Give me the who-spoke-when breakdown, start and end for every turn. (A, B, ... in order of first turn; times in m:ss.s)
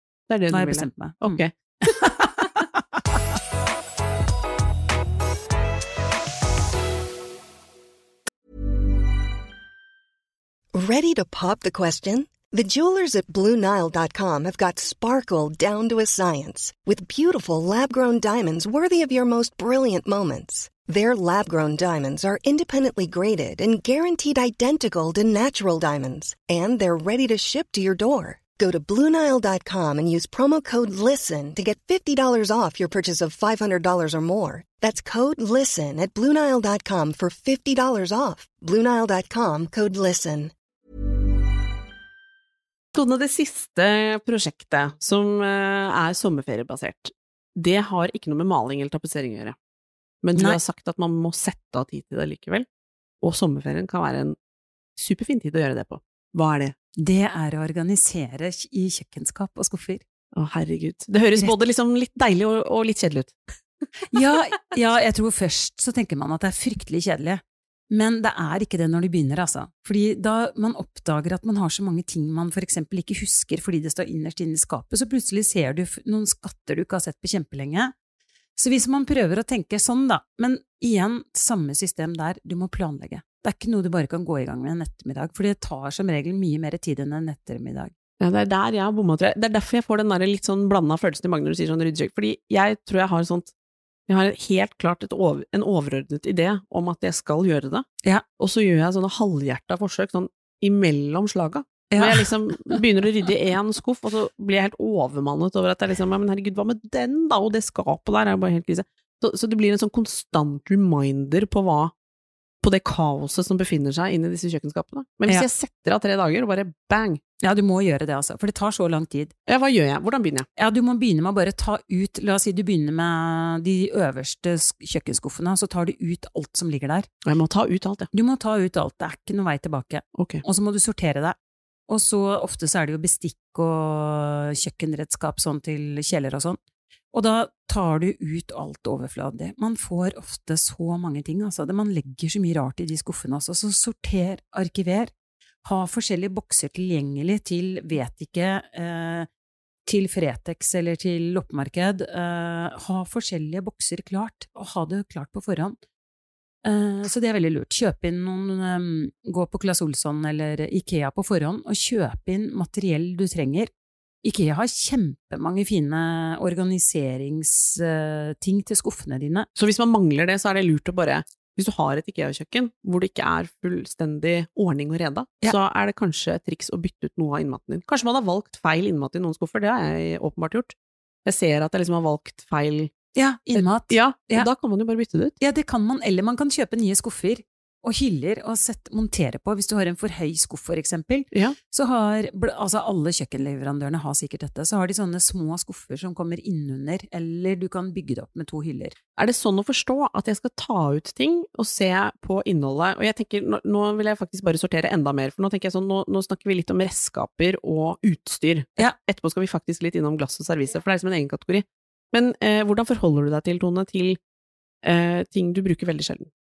0:00.3-0:02.1 A
0:00.5-0:02.6 B
0:10.7-0:40.5 C
0:42.9-0:49.6 A
0:50.2-0:52.7 A
0:53.2-0:54.4 A
0:55.0-0:56.8 A
0:57.0-1:00.0 B
1:00.4-1:03.4 A
1:04.1-1:17.9 B
1:18.6-1:27.9 B
1:28.2-1:33.5 A
1:34.1-1:37.9 A
1:38.4-1:51.9 A
1:41.9-1:42.8 B
1:52.6-1:57.2 A
1:57.4-1:59.3 B
1:59.5-2:00.5 A
2:00.6-2:07.1 B
2:07.2-2:08.1 A
2:08.1-2:11.4 B
2:10.2-2:10.4 A
2:11.9-2:16.6 B
2:17.1-2:25.1 B
2:25.6-2:29.3 B
2:29.9-2:35.8 B
2:36.6-2:43.7 B
2:44.2-2:49.5 B
2:49.6-3:00.8 A
3:01.3-3:02.9 A
3:03.2-3:04.5 B
3:03.6-3:05.4 A
3:05.4-3:19.0 B
3:19.2-3:34.2 A
3:34.8-3:36.3 A